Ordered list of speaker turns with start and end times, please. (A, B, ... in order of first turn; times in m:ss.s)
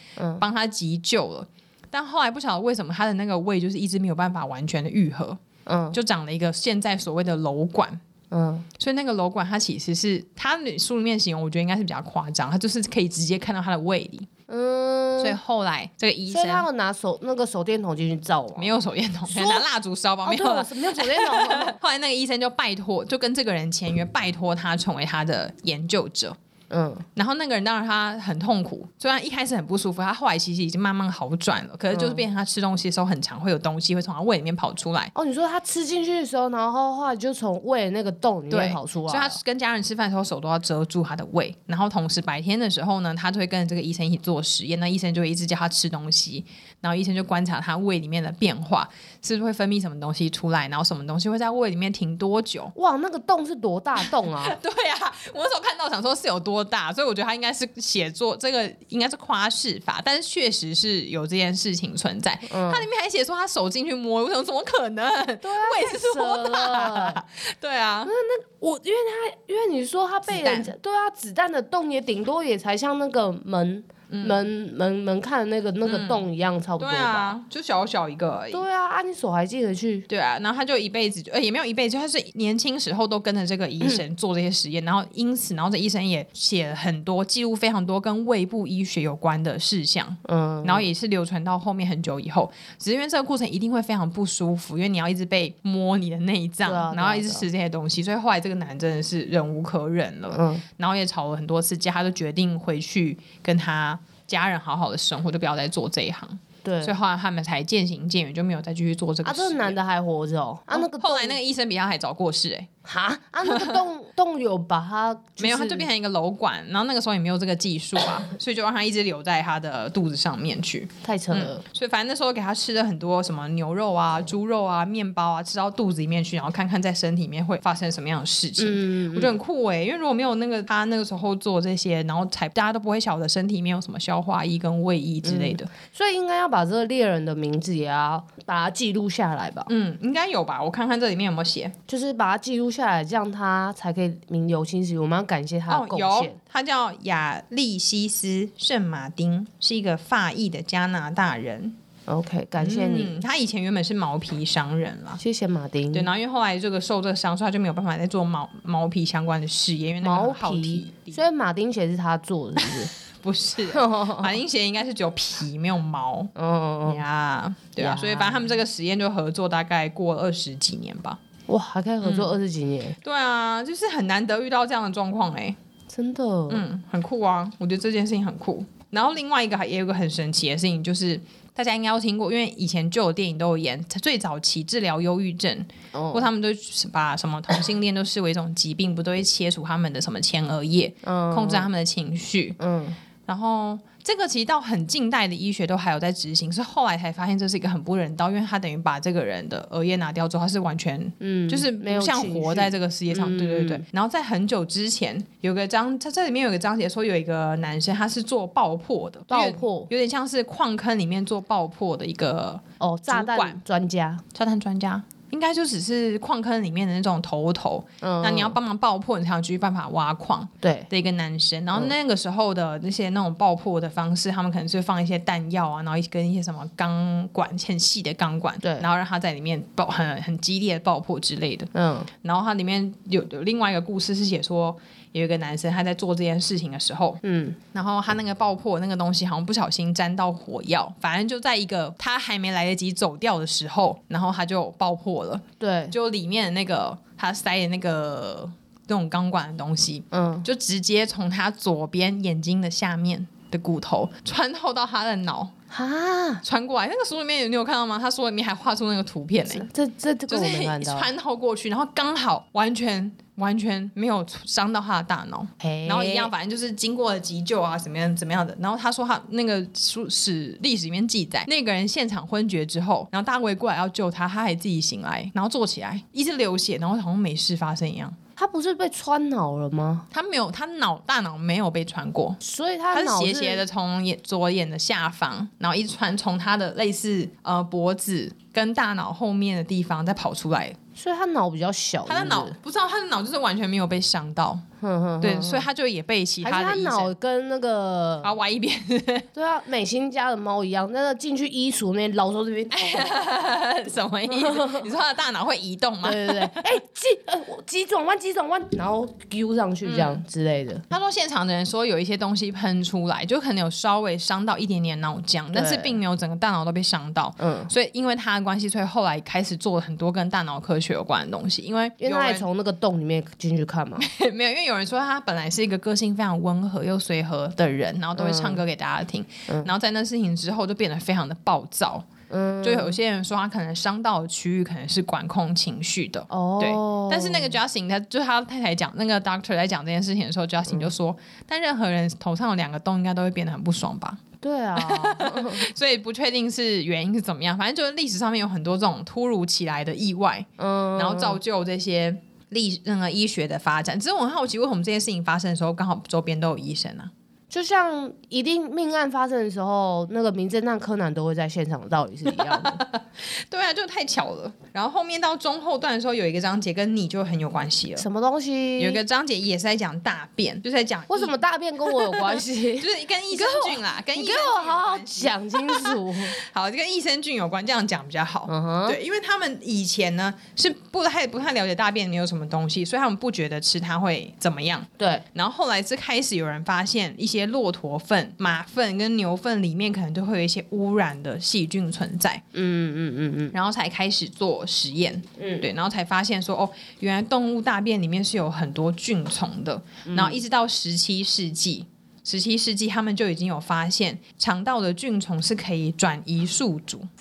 0:00.2-0:00.4 A
0:00.4-0:05.4 B
0:05.7-0:06.0 A
0:05.9-0:08.0 B
0:08.3-0:08.7 A
0:08.8-0:14.3 B
0:14.5-0:15.4 A
0:15.2-0:16.7 B
0:16.3-0:18.7 A
0:18.6-0:26.4 B
0:19.3-0:19.7 A
0:20.2-0:21.8 A
0:26.7-0:27.1 A
0:27.2-0:35.1 B
0:31.9-0:32.2 A
0:35.2-0:39.4 A
0:38.5-0:52.7 B
0:52.8-0:54.6 A
0:54.0-1:08.1 B
1:02.5-1:02.9 A
1:05.4-1:07.2 A
1:08.1-1:17.3 A
1:10.3-1:10.7 B
1:14.1-1:14.4 B
1:15.8-1:16.3 B
1:16.8-1:18.6 B
1:18.5-1:20.1 A
1:20.1-1:49.8 B
1:30.2-1:30.9 A
1:36.6-1:37.5 A
1:40.3-1:40.6 A
1:46.6-1:47.0 A
1:49.2-1:51.4 A
1:50.7-1:52.7 B
1:52.8-1:55.9 A
1:53.4-1:53.8 B
1:55.4-2:15.7 B
2:01.0-2:01.6 A
2:08.6-2:09.4 A
2:15.2-2:19.7 A
2:19.7-2:21.8 B
2:21.9-2:26.4 A
2:25.7-2:31.8 B
2:32.1-2:33.2 A
2:32.6-2:35.2 B
2:35.2-2:36.1 A
2:35.9-2:41.2 B
2:40.0-2:42.9 A
2:42.6-2:46.3 B
2:43.7-2:44.3 A
2:46.4-2:47.0 A
2:46.8-2:51.2 B
2:47.8-2:48.5 A
2:51.5-2:53.0 A
2:52.0-2:52.4 B
2:53.0-2:55.6 B
2:55.9-2:56.6 A
2:56.5-3:12.6 B
3:05.9-3:06.3 A
3:11.0-3:11.7 A
3:12.6-3:13.0 A
3:13.3-3:33.6 B
3:21.2-3:23.8 A
3:29.3-3:29.9 A
3:32.8-3:34.2 A
3:34.3-3:51.7 B
3:38.0-3:38.6 A
3:40.6-3:40.9 A
3:51.7-3:52.1 A
3:52.2-3:57.2 B
3:57.2-3:57.6 A
3:57.7-4:15.5 B
4:05.6-4:06.0 A
4:10.1-4:10.5 A
4:15.7-4:16.4 A
4:16.4-4:19.7 B
4:19.4-4:21.1 A
4:20.3-4:38.2 B
4:25.6-4:26.3 A
4:38.4-4:40.1 A
4:40.1-4:50.8 B
4:42.4-4:43.6 A
4:51.0-4:52.6 A
4:52.1-4:54.6 B
4:54.8-4:55.7 A
4:55.2-4:57.1 B
4:56.4-4:58.3 A
4:58.2-4:59.3 B
4:59.4-5:03.2 A
5:02.7-5:06.7 B
5:04.3-5:04.9 A
5:06.0-5:10.8 A
5:09.8-5:10.2 B
5:10.9-5:22.5 B
5:15.5-5:16.0 A
5:17.4-5:17.7 A
5:22.0-5:24.1 A
5:24.0-5:32.1 B
5:28.2-5:28.6 A
5:32.3-5:33.0 A
5:32.6-5:44.2 B
5:36.3-5:37.6 A
5:44.4-5:45.7 A
5:44.8-5:57.1 B
5:50.6-5:51.4 A
5:57.5-6:02.8 A
6:02.3-6:08.1 B
6:08.0-6:09.0 A
6:08.8-6:32.4 B
6:11.1-6:16.4 A
6:18.5-6:19.0 A
6:25.0-6:25.2 A
6:32.5-6:33.5 A
6:33.5-6:47.1 B
6:35.4-6:35.7 A
6:40.1-6:40.4 A